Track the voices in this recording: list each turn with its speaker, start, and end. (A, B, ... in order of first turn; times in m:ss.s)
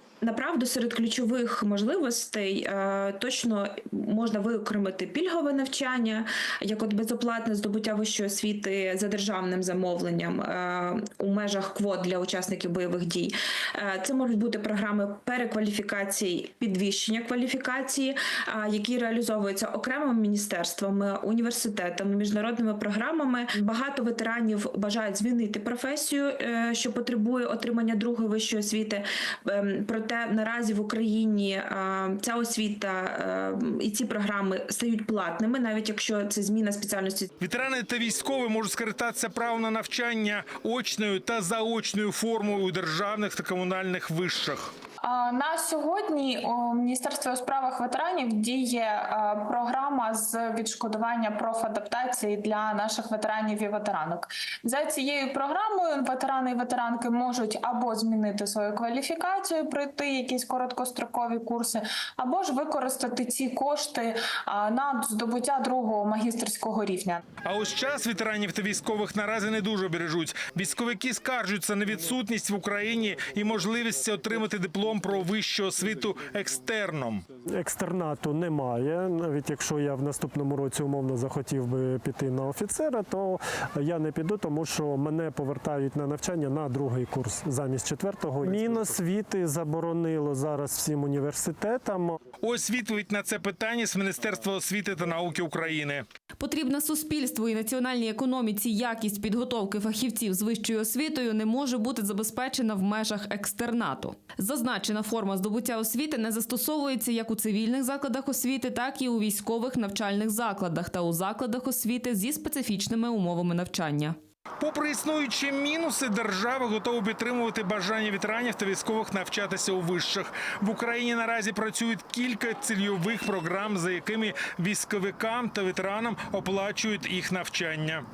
0:00.2-0:37.3 A
0:37.4-0:44.7 B
0:45.0-1:07.2 C
1:07.4-1:17.2 B
1:17.5-1:32.2 D
1:32.4-1:36.0 B
1:36.4-1:54.2 E
1:54.6-2:08.0 B